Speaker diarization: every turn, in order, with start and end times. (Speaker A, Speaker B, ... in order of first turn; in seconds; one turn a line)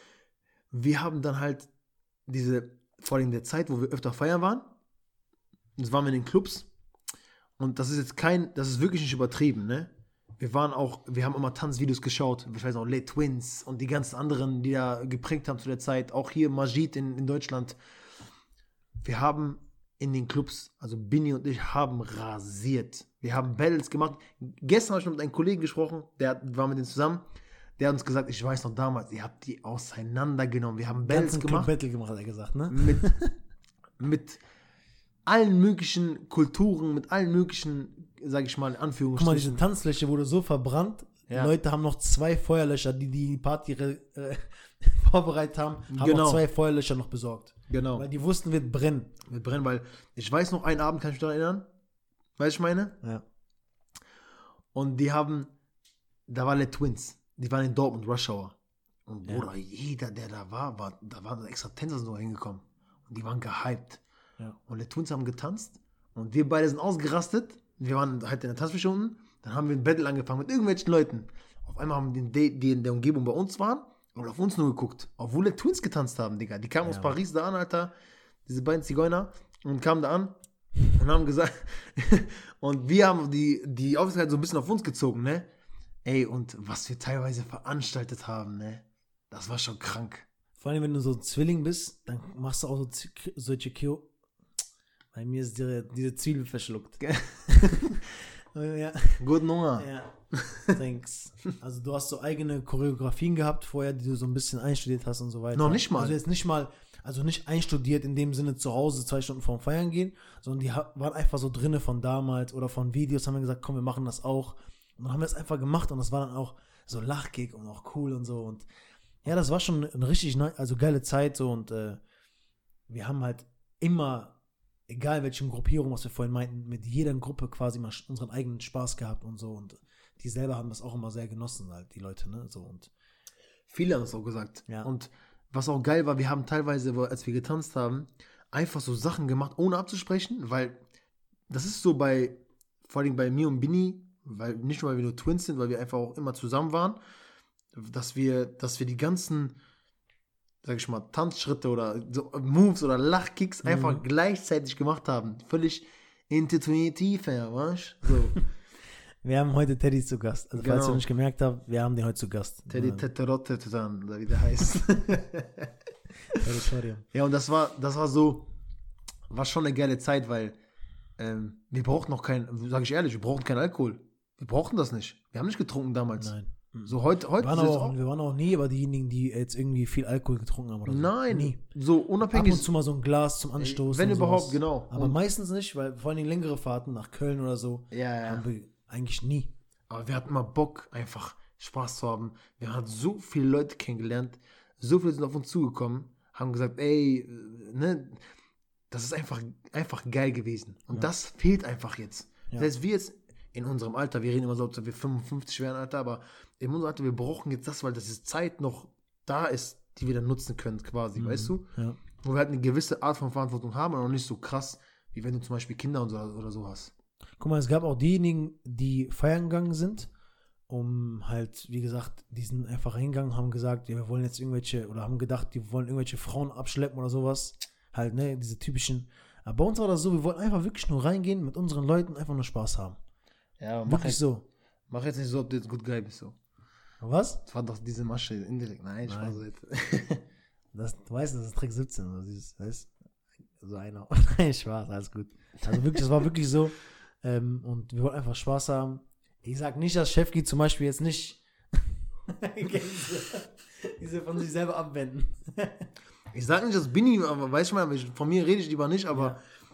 Speaker A: 0.7-1.7
Speaker A: 2.3-4.7
Speaker A: 5.8-6.7
Speaker A: 7.6-17.8
Speaker A: 19.0-27.2
Speaker A: 27.8-31.7
Speaker B: 31.0-33.3
Speaker A: 32.7-33.1
Speaker A: 34.0-34.4
Speaker A: 35.2-39.6
Speaker B: 39.1-49.1
Speaker A: 41.3-41.5
Speaker A: 45.9-46.4
Speaker A: 47.7-48.0
Speaker A: 49.2-51.6
Speaker A: 52.4-53.0
Speaker A: 54.7-55.5
Speaker A: 56.3-64.0
Speaker A: 64.6-77.9
Speaker B: 76.8-77.1
Speaker A: 78.5-80.3
Speaker A: 80.9-85.5
Speaker A: 86.0-90.3
Speaker B: 90.6-94.1
Speaker B: 95.1-99.2
Speaker A: 97.0-97.7
Speaker A: 99.2-100.7
Speaker B: 99.8-100.1
Speaker B: 100.7-118.7
Speaker A: 105.5-106.2
Speaker B: 119.2-122.0
Speaker B: 122.9-124.3
Speaker B: 124.9-132.9
Speaker A: 133.7-140.8
Speaker A: 141.5-147.0
Speaker A: 147.7-149.6
Speaker A: 150.6-158.4
Speaker B: 153.6-154.0
Speaker B: 159.2-163.1
Speaker A: 160.6-161.0
Speaker A: 162.7-165.7
Speaker B: 166.3-167.0
Speaker A: 167.1-168.5
Speaker A: 169.3-170.6
Speaker A: 171.2-176.3
Speaker B: 176.2-181.6
Speaker A: 176.8-178.0
Speaker A: 180.8-182.7
Speaker B: 182.3-189.5
Speaker A: 183.6-185.2
Speaker A: 187.9-188.4
Speaker A: 189.9-198.2
Speaker A: 198.9-216.9
Speaker B: 211.2-212.0
Speaker B: 217.4-220.1
Speaker B: 220.7-233.0
Speaker A: 233.6-234.2
Speaker B: 233.9-234.4
Speaker A: 234.9-236.3
Speaker B: 237.0-237.4
Speaker A: 237.4-240.2
Speaker B: 239.1-239.4
Speaker B: 240.7-242.9
Speaker B: 243.6-255.9
Speaker A: 245.7-246.0
Speaker A: 256.3-259.4
Speaker B: 259.1-259.4